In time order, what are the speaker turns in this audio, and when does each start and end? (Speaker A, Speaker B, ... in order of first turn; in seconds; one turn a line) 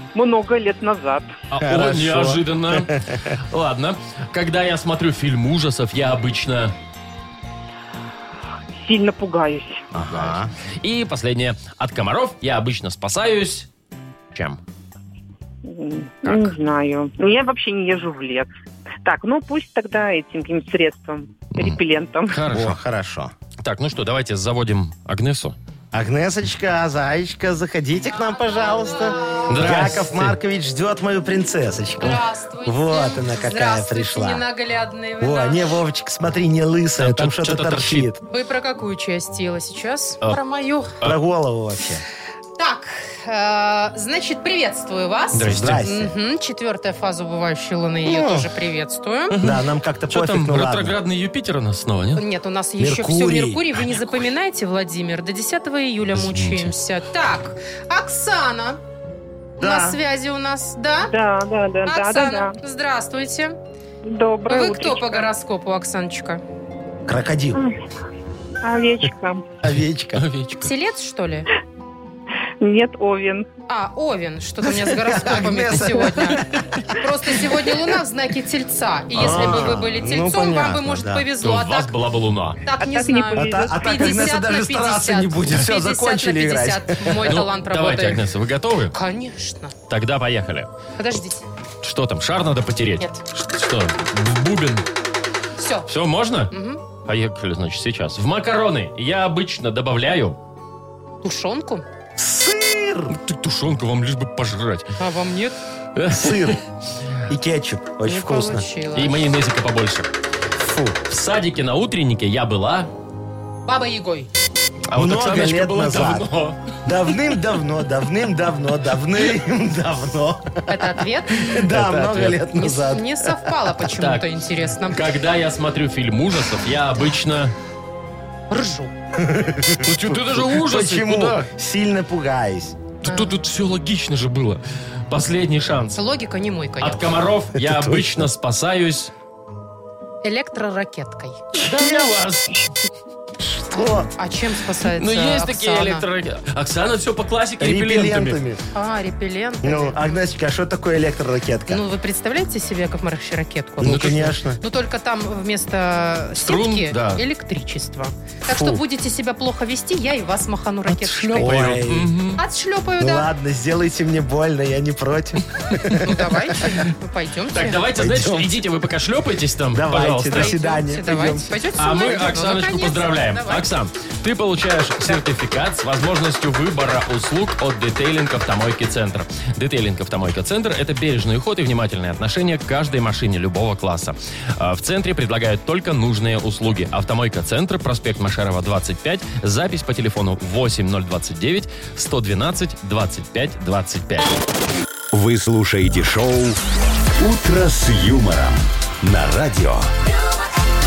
Speaker A: 0.1-1.3
Speaker B: 1.5-6.7
Speaker C: 1.6-3.2
Speaker A: 8.8-9.8
Speaker C: 9.9-10.5
Speaker B: 10.0-13.7
Speaker B: 14.3-14.6
Speaker A: 15.6-18.5
Speaker B: 16.2-16.5
Speaker A: 19.0-22.4
Speaker B: 21.5-22.8
Speaker C: 22.5-23.3
Speaker B: 23.6-25.6
Speaker C: 25.9-34.4
Speaker D: 28.3-29.5
Speaker B: 29.5-30.4
Speaker D: 32.0-35.8
Speaker C: 35.2-38.2
Speaker B: 37.0-38.1
Speaker D: 38.3-40.9
Speaker C: 41.0-42.0
Speaker D: 42.6-49.3
Speaker B: 45.3-45.8
Speaker C: 45.4-46.1
Speaker C: 48.0-48.5
Speaker B: 49.3-52.2
Speaker C: 49.4-51.0
Speaker D: 52.1-58.8
Speaker C: 52.8-53.8
Speaker B: 56.1-56.7
Speaker C: 59.6-60.0
Speaker D: 59.6-61.1
Speaker A: 61.1-62.6
Speaker D: 61.9-63.5
Speaker A: 64.0-65.3
Speaker D: 64.5-66.4
Speaker C: 67.1-67.6
Speaker A: 68.6-69.4
Speaker C: 69.6-70.2
Speaker B: 70.2-70.7
Speaker D: 70.6-71.5
Speaker A: 72.6-73.5
Speaker D: 73.7-81.9
Speaker C: 74.8-76.7
Speaker C: 79.1-81.2
Speaker B: 79.2-79.7
Speaker B: 81.4-82.6
Speaker D: 82.6-88.2
Speaker A: 82.8-84.0
Speaker C: 83.3-87.4
Speaker B: 87.2-88.9
Speaker D: 88.9-89.7
Speaker B: 89.9-90.7
Speaker D: 91.0-91.4
Speaker B: 91.8-94.8
Speaker D: 95.6-95.9
Speaker B: 95.9-96.5
Speaker D: 96.5-96.8
Speaker B: 97.0-100.4
Speaker D: 101.2-101.8
Speaker C: 102.2-103.1
Speaker B: 103.1-104.9
Speaker D: 105.0-105.5
Speaker B: 106.0-106.6
Speaker C: 106.1-106.6
Speaker C: 107.3-108.7
Speaker D: 108.0-109.2
Speaker B: 108.9-110.1
Speaker C: 110.6-111.0
Speaker B: 111.1-112.9
Speaker D: 113.7-114.3
Speaker B: 114.9-116.6
Speaker C: 114.9-116.3
Speaker C: 116.8-123.5
Speaker D: 120.7-121.7
Speaker B: 121.7-122.4
Speaker D: 122.5-125.0
Speaker B: 123.9-124.2
Speaker B: 124.9-127.5
Speaker D: 128.5-128.9
Speaker C: 129.2-132.8
Speaker B: 129.8-131.5
Speaker B: 133.0-135.9
Speaker D: 133.0-133.3
Speaker D: 135.9-137.0
Speaker B: 136.8-139.1
Speaker C: 137.6-138.2
Speaker D: 140.2-141.4
Speaker C: 141.5-142.2
Speaker B: 141.6-142.5
Speaker C: 143.4-144.1
Speaker D: 143.7-146.0
Speaker B: 144.9-148.4
Speaker C: 147.6-148.6
Speaker D: 148.7-150.0
Speaker C: 149.6-151.8
Speaker D: 151.7-161.5
Speaker C: 153.8-154.6
Speaker B: 153.8-154.3
Speaker B: 156.4-157.2
Speaker C: 158.5-158.8
Speaker B: 160.9-162.4
Speaker C: 161.3-162.2
Speaker D: 162.4-163.3
Speaker C: 163.0-166.1
Speaker D: 166.0-167.8
Speaker B: 167.5-170.5
Speaker C: 167.9-168.5
Speaker C: 169.7-171.5
Speaker D: 170.3-173.6
Speaker B: 171.8-194.3
Speaker E: 195.1-196.6
Speaker E: 197.2-199.9